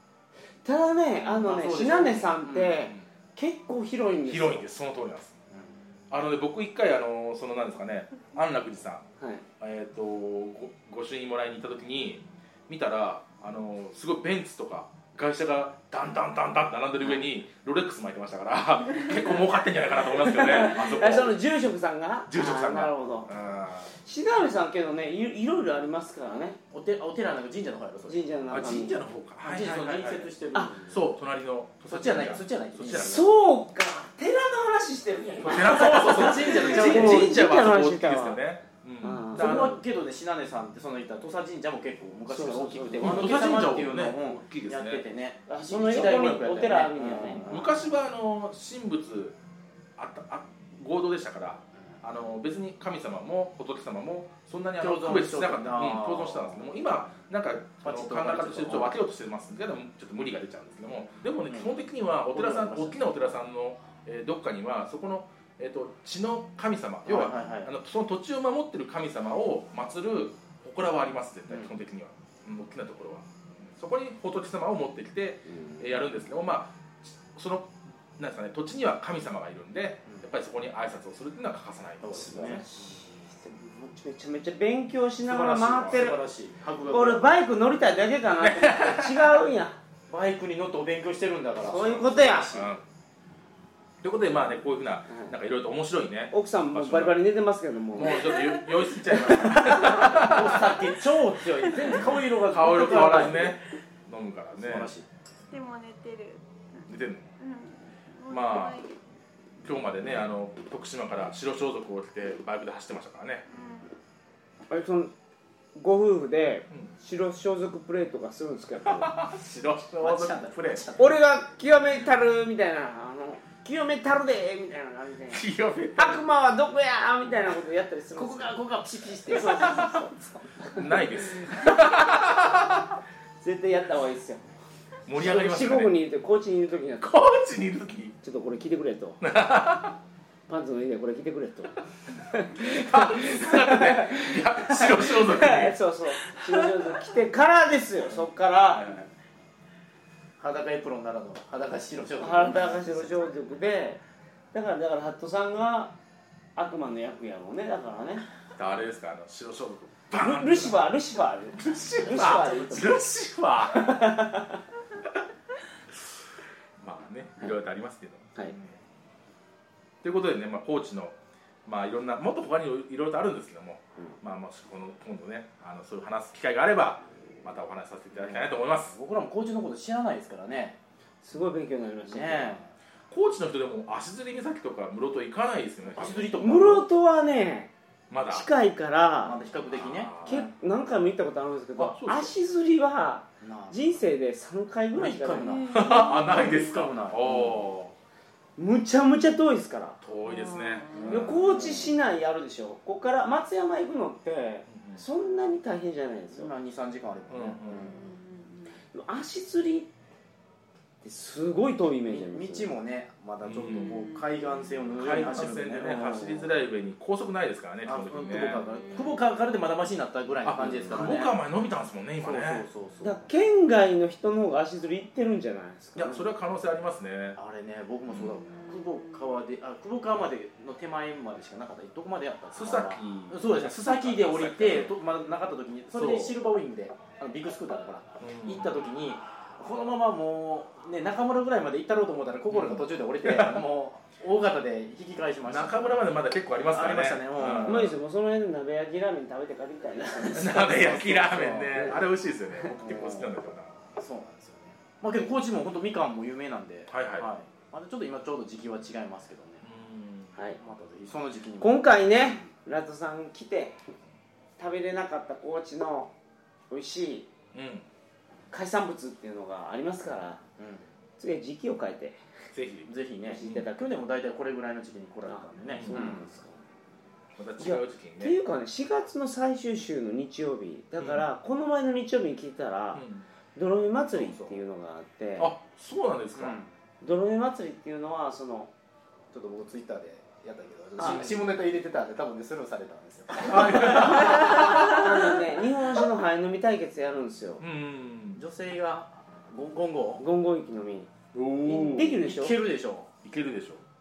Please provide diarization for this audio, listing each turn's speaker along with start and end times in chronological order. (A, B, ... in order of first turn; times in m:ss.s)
0:00.6-0:04.6 A
0:01.2-0:02.9 B
0:04.3-0:05.4 C
0:05.5-0:05.8 B
0:06.1-0:09.0 C
0:09.6-0:21.4 C
0:20.2-0:23.3 A
0:22.3-0:23.9 C
0:23.9-0:26.6 A
0:26.7-0:28.2 B
0:28.1-0:29.0 A
0:28.5-0:30.4 C
0:29.4-0:31.1 B
0:30.9-0:33.3 C
0:31.9-0:33.3 B
0:32.9-0:38.4 A
0:35.4-0:39.8 C
0:35.5-0:37.4 B
0:39.0-0:39.7 A
0:39.4-0:47.8 B
0:42.3-0:43.5 A
0:43.0-0:45.0 C
0:45.5-0:47.5 A
0:46.0-0:46.4 C
0:47.4-0:49.4 C
0:50.0-1:22.6 C
0:54.8-0:56.8 B
0:57.8-0:59.0 B
1:01.5-1:01.8 B
1:02.3-1:03.1 B
1:07.0-1:07.7 B
1:15.5-1:15.8 A
1:22.0-1:23.7 B
1:22.2-1:22.6 A
1:23.7-1:26.2 A
1:25.2-1:27.3 B
1:25.8-1:26.1 C
1:26.9-1:29.8 A
1:28.4-1:29.2 C
1:30.1-1:32.7 B
1:31.7-1:32.6 A
1:32.4-1:32.8 C
1:34.0-1:37.2 C
1:36.3-1:38.4 A
1:37.9-1:40.9 C
1:39.3-1:43.6 B
1:39.5-1:40.2 A
1:41.8-1:44.9 C
1:44.6-1:45.1 B
1:45.5-1:46.4 D
1:46.9-1:47.3 C
1:47.4-1:49.0 D
1:48.3-1:48.8 C
1:49.6-1:53.5 C
1:53.5-1:53.9 D
1:54.7-1:55.1 A
1:55.8-1:59.1 A
1:58.8-2:00.8 C
2:00.0-2:01.2 B
2:01.0-2:05.4 A
2:05.3-2:06.2 C
2:06.0-2:08.6 A
2:08.2-2:09.9 B
2:09.3-2:11.7 A
2:09.6-2:09.9 C
2:10.7-2:13.0 C
2:13.4-2:14.4 A
2:15.1-2:15.9 C
2:15.2-2:17.1 A
2:17.0-2:18.2 C
2:18.2-2:19.2 A
2:19.2-2:20.0 C
2:20.5-2:28.9 A
2:22.6-2:25.8 C
2:28.7-2:29.1 C
2:30.4-2:33.4 B
2:32.2-2:34.0 A
2:34.5-2:35.9 A
2:36.6-2:38.2 A
2:38.6-2:40.9 C
2:40.2-2:43.0 A
2:41.6-2:44.0 C
2:43.7-2:44.6 A
2:46.8-2:48.4 C
2:50.0-2:51.2 C
2:51.7-2:59.0 C
2:58.1-3:00.8 B
3:01.2-3:02.6 A
3:02.1-3:02.7 B
3:03.1-3:06.4 C
3:05.8-3:06.9 B
3:06.4-3:07.7 A
3:08.1-3:08.5 C
3:08.3-3:09.4 A
3:09.2-3:10.4 B
3:09.7-3:10.5 C
3:10.2-3:15.6 A
3:11.8-3:12.3 C
3:13.4-3:14.0 B
3:14.9-3:17.6 B
3:15.4-3:16.6 D
3:15.7-3:17.9 C
3:18.6-3:20.0 A
3:20.0-3:21.5 C
3:20.2-3:21.1 D
3:20.9-3:22.0 B
3:21.1-3:26.5 A
3:24.7-3:25.0 C
3:26.3-3:28.0 B
3:27.3-3:28.0 C
3:27.8-3:28.8 D
3:28.9-3:29.9 A
3:31.0-3:32.7 A
3:32.1-3:36.2 B
3:33.4-3:34.1 C
3:33.7-3:35.0 D
3:35.0-3:38.6 C
3:35.9-3:36.5 A
3:37.8-3:41.4 B
3:38.6-3:39.3 D
3:40.4-3:42.6 C
3:42.2-3:43.3 B
3:43.0-3:46.3 A
3:46.0-3:47.4 C
3:47.4-4:06.1 B
3:48.1-3:48.4 C
3:48.5-3:49.4 D
3:52.5-3:55.0 C
3:55.9-3:56.4 C
3:58.2-3:58.8 C
4:02.5-4:03.7 C
4:05.5-4:08.0 C
4:06.7-4:07.9 B
4:07.6-4:11.2 A
4:10.3-4:13.8 C
4:10.5-4:12.0 B
4:12.7-4:13.3 B
4:13.9-4:19.6 B
4:16.9-4:17.3 C
4:19.6-4:20.4 C
4:20.6-4:22.2 B
4:21.6-4:23.8 A
4:24.6-4:26.1 A
4:26.7-4:27.3 A
4:27.5-4:27.9 C
4:28.5-4:30.4 A
4:30.6-4:30.9 B
4:31.2-4:32.2 A
4:32.5-4:33.6 C
4:32.9-4:36.2 B
4:33.3-4:33.9 A
4:35.3-4:36.6 A
4:35.7-4:36.1 C
4:37.4-4:38.4 C
4:37.6-4:43.0 A
4:41.0-4:41.2 C
4:42.9-4:43.2 C
4:43.6-4:45.5 A
4:44.2-4:44.6 B
4:45.4-4:46.6 C
4:46.4-4:46.7 B
4:47.0-4:48.7 A
4:49.3-4:54.8 B
4:51.0-4:51.3 A
4:51.0-4:51.3 C
4:53.4-4:55.1 C
4:53.8-4:57.6 A
4:57.6-4:58.4 C
4:58.4-5:00.2 B
5:00.2-5:01.1 A
5:01.3-5:02.2 C
5:01.7-5:02.6 A
5:01.8-5:03.1 B
5:03.2-5:03.8 C